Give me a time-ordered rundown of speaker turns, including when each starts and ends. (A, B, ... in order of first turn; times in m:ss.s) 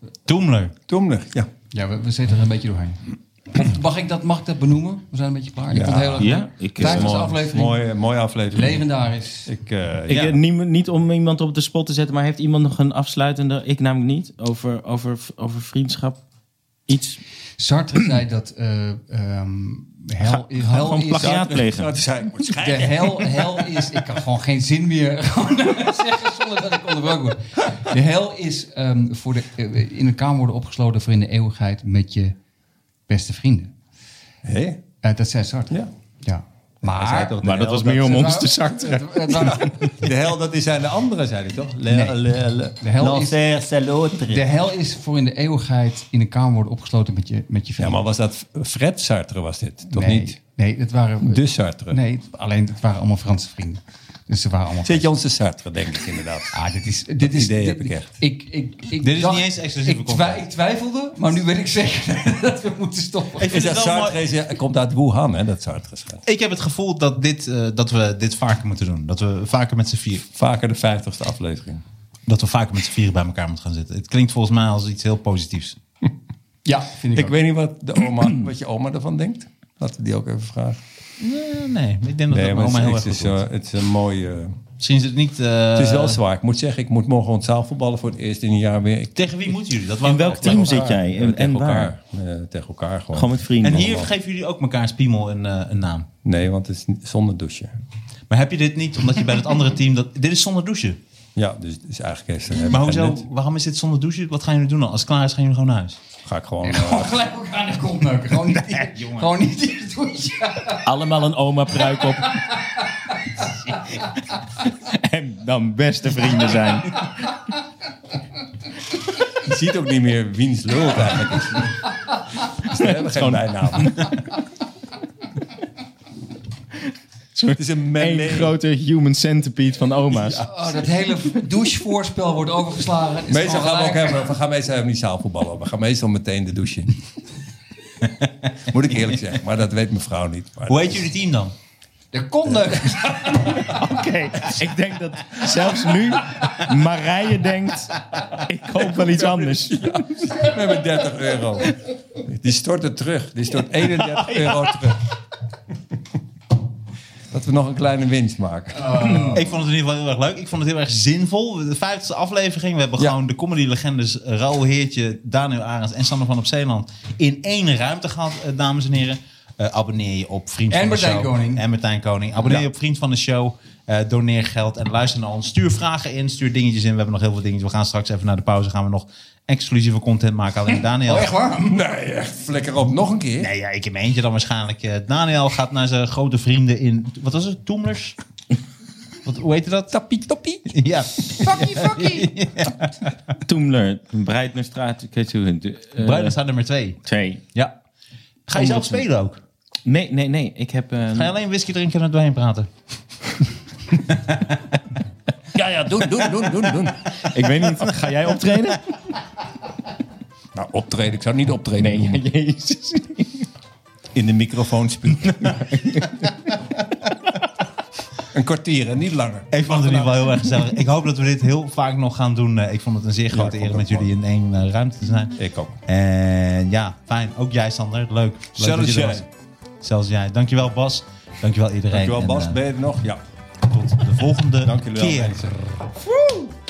0:00.2-0:00.7 A
0:00.9-0:01.5 B
0:01.7-0:07.8 C
0:05.7-0:08.8 B
0:06.2-0:07.1 D
0:08.5-0:09.5 C
0:09.4-0:10.4 B
0:10.1-0:16.2 D
0:16.9-0:17.2 D
0:17.6-0:21.5 C
0:20.2-0:21.9 D
0:21.1-0:23.4 B
0:22.6-0:32.4 C
0:33.1-0:33.7 C
0:34.4-0:34.8 B
0:35.0-0:37.4 C
0:36.8-0:38.5 B
0:37.4-0:40.0 D
0:38.0-0:39.9 C
0:39.4-0:44.4 B
0:41.9-0:42.2 C
0:42.8-0:43.4 C
0:44.3-0:48.0 C
0:47.8-0:50.4 B
0:49.9-0:55.1 C
0:51.2-0:52.0 B
0:54.8-0:56.6 B
0:56.5-1:03.6 C
0:57.2-0:58.2 B
0:59.0-1:00.4 A
1:03.4-1:04.2 A
1:03.5-1:06.2 B
1:06.2-1:10.2 A
1:10.3-1:11.8 B
1:12.3-1:15.8 A
1:16.6-1:17.4 C
1:17.1-1:20.8 B
1:21.2-1:23.4 A
1:22.3-1:24.6 B
1:24.8-1:26.2 A
1:25.8-1:29.1 B
1:29.2-1:31.0 A
1:30.0-1:31.9 D
1:30.3-1:34.1 B
1:33.1-1:34.0 D
1:33.6-1:36.1 A
1:36.2-1:37.8 B
1:38.3-1:41.0 A
1:41.4-1:43.2 B
1:42.5-1:46.0 A
1:46.2-1:47.2 B
1:46.6-1:50.9 C
1:48.5-1:49.3 A
1:50.8-1:52.4 D
1:52.2-1:54.0 C
1:54.6-1:57.2 D
1:59.4-2:01.8 B
2:02.6-2:04.1 B
2:02.7-2:04.2 D
2:07.3-2:10.4 D
2:07.5-2:08.5 B
2:10.1-2:10.8 B
2:10.4-2:14.3 C
2:13.3-2:17.0 B
2:18.7-2:21.0 B
2:18.8-2:19.0 A
2:20.7-2:21.5 A
2:22.1-2:23.7 C
2:22.5-2:23.5 B
2:23.5-2:30.4 D
2:28.9-2:35.0 B
2:33.8-2:34.9 D
2:37.3-2:39.4 B
2:39.0-3:01.3 A
2:50.7-2:51.6 C
3:01.0-3:01.8 C
3:01.7-3:03.5 B
3:03.4-3:08.2 A
3:09.2-3:09.9 A
3:09.9-3:10.7 B
3:10.7-3:13.1 A
3:11.4-3:12.3 C
3:13.4-3:16.3 D
3:16.0-3:17.7 A
3:17.0-3:17.4 D
3:18.5-3:19.4 A
3:18.6-3:19.0 D
3:19.8-3:21.3 D
3:21.1-3:22.7 A
3:24.2-3:24.5 A
3:25.5-3:27.1 B
3:27.1-3:28.9 D
3:30.5-3:32.2 B
3:31.8-3:33.5 D
3:34.1-3:35.9 B
3:35.2-3:36.6 D
3:38.3-3:40.3 B
3:39.5-3:49.3 A
3:43.3-3:44.1 B
3:45.4-3:45.7 B
3:48.6-3:49.2 B
3:49.8-3:52.6 A
3:51.9-3:53.2 B
3:53.6-3:55.4 A
3:54.6-3:55.8 B